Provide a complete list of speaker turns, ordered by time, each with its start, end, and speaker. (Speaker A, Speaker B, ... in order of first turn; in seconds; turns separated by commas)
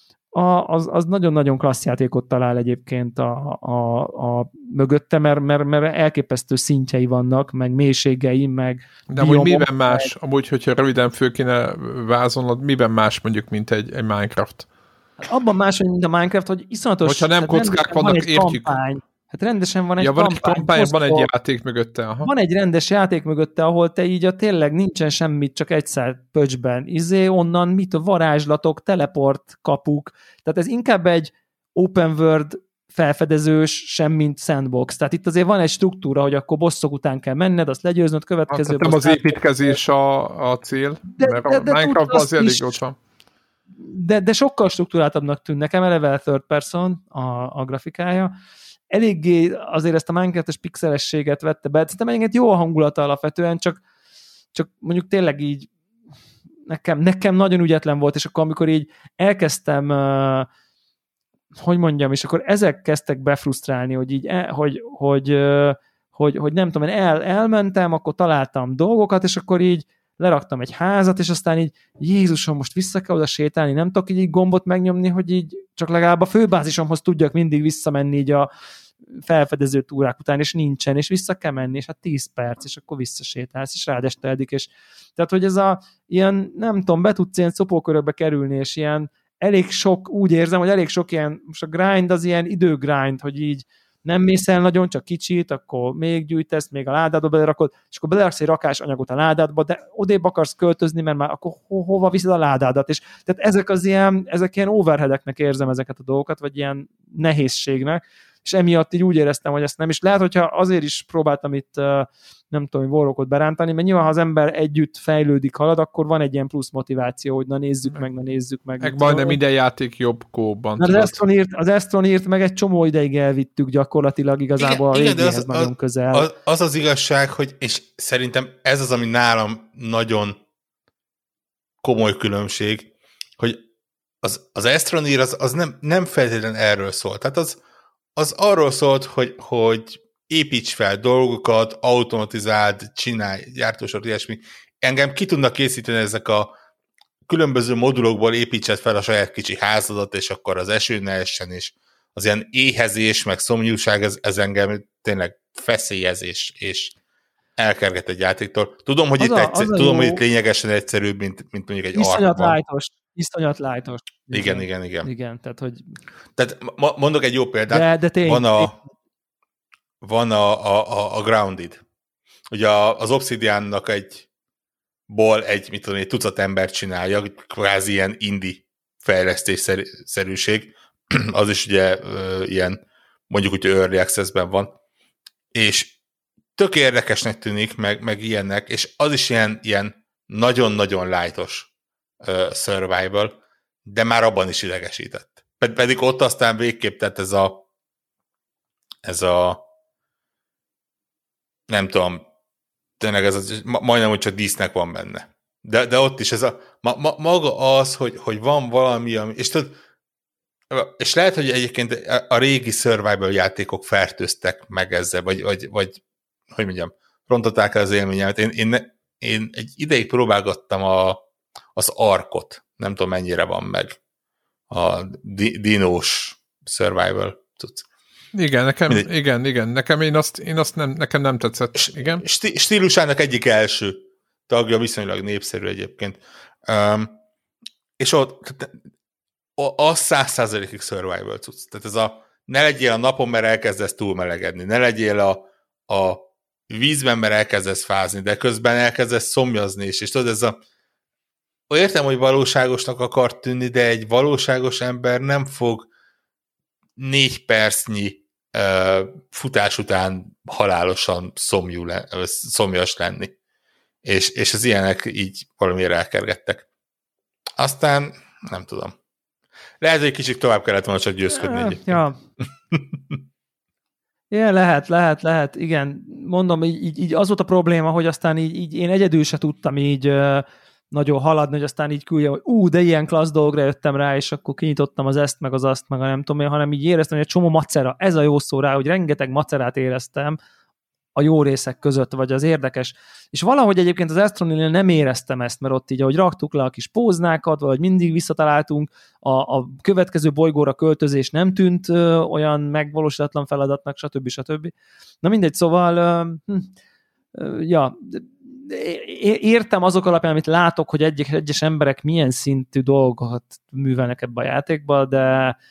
Speaker A: 0.3-10.1, Speaker B: 9.1-14.7, Speaker A: 15.2-21.3, Speaker B: 17.1-18.8, Speaker B: 20.0-22.3, Speaker A: 22.2-39.8, Speaker B: 38.5-43.0, Speaker A: 41.1-42.8, Speaker A: 43.8-48.3, Speaker A: 48.9-53.8, Speaker A: 54.5-55.7, Speaker A: 56.7-60.5, Speaker A: 61.6-78.5, Speaker A: 79.2-119.4, Speaker B: 118.8-121.2, Speaker A: 120.8-126.3, Speaker C: 124.6-130.4, Speaker C: 131.8-133.6, Speaker C: 134.2-137.6, Speaker C: 138.2-146.6, Speaker C: 147.3-156.9, Speaker C: 157.6-162.6, Speaker A: 159.2-160.2, Speaker A: 161.9-165.8, Speaker C: 164.3-165.1, Speaker C: 166.4-168.7, Speaker A: 167.7-168.7, Speaker C: 170.0-171.8, Speaker C: 172.5-174.3, Speaker C: 175.1-184.8, Speaker C: 185.5-185.9, Speaker C: 186.6-191.7, Speaker C: 192.2-197.7, Speaker C: 199.1-199.6, Speaker C: 201.7-202.3, Speaker C: 203.0-209.8, Speaker C: 210.7-216.0, Speaker C: 216.5-221.2, Speaker C: 221.8-224.0, Speaker C: 224.7-227.8, Speaker B: 228.3-232.2, Speaker C: 231.8-237.2, Speaker C: 238.0-238.8, Speaker C: 239.6-250.6, Speaker C: 251.7-255.9, Speaker C: 257.0-263.3, Speaker C: 264.1-266.6, Speaker C: 267.6-268.9, Speaker C: 269.8-272.0, Speaker A: 271.3-272.2, Speaker C: 272.7-273.2, Speaker A: 274.3-290.4, Speaker A: 291.2-306.7, Speaker A: 307.3-315.6